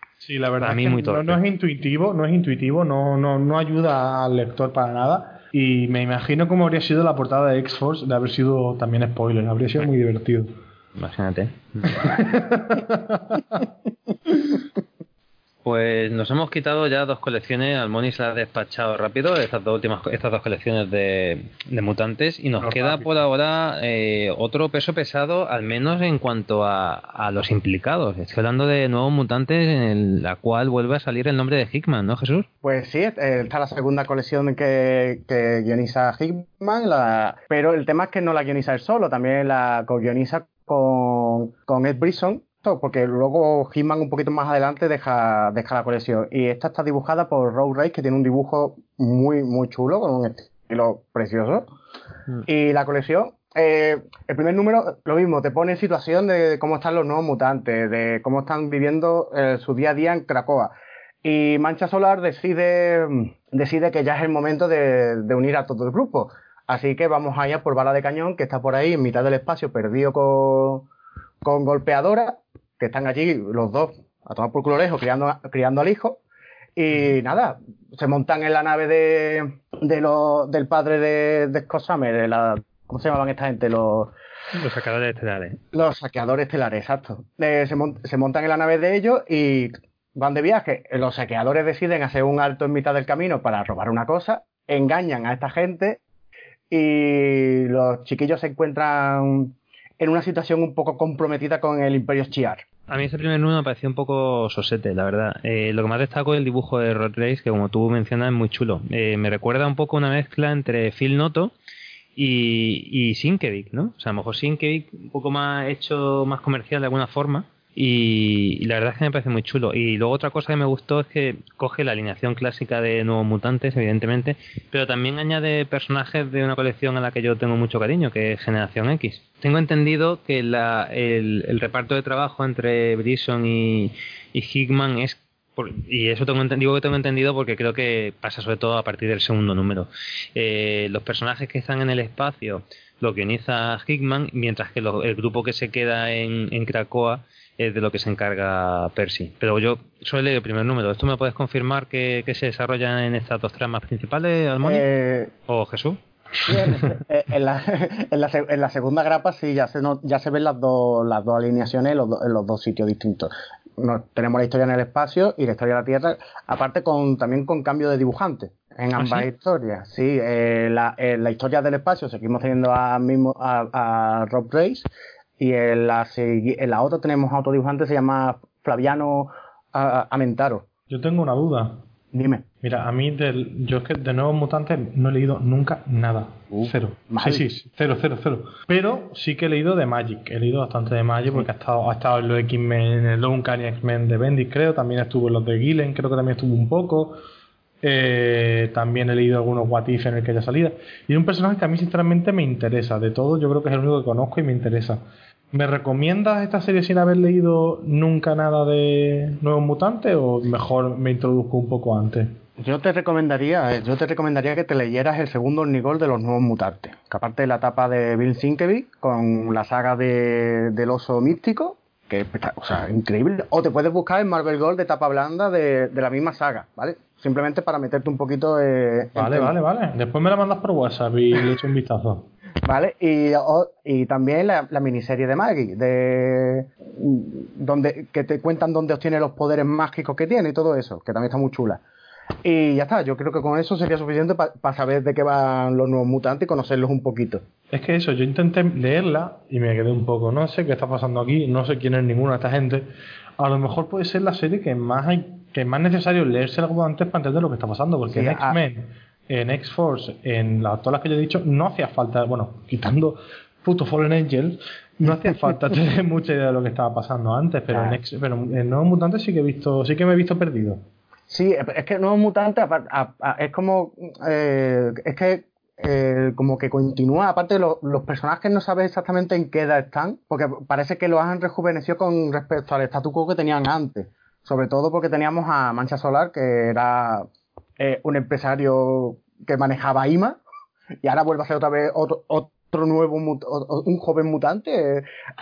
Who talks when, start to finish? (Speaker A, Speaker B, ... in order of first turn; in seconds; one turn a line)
Speaker A: 0.2-10.5
Speaker B: 0.6-1.4
Speaker B: 11.0-12.1
Speaker A: 11.9-13.7
Speaker B: 15.6-32.5
Speaker A: 22.6-23.2
Speaker C: 32.6-51.7
Speaker C: 52.5-60.7
Speaker C: 61.2-70.9
Speaker C: 71.4-76.2
Speaker C: 76.8-84.1
Speaker B: 84.5-85.6
Speaker C: 85.7-96.0
Speaker C: 96.7-102.6
Speaker B: 102.9-111.5
Speaker B: 112.2-154.8
Speaker C: 154.6-155.3
Speaker B: 155.5-156.0
Speaker C: 156.5-174.9
Speaker B: 169.0-169.3
Speaker C: 175.4-180.7
Speaker A: 180.9-181.8
Speaker C: 182.1-182.5
Speaker A: 182.6-197.2
Speaker C: 186.5-187.4
Speaker A: 197.8-212.4
Speaker C: 212.6-229.5
Speaker A: 229.2-232.3
Speaker C: 232.7-241.8
Speaker C: 242.4-247.4
Speaker A: 247.7-270.8
Speaker C: 258.1-258.6
Speaker C: 265.1-265.5
Speaker C: 267.7-268.0
Speaker C: 271.3-287.3
Speaker C: 287.8-290.4
Speaker C: 291.0-295.1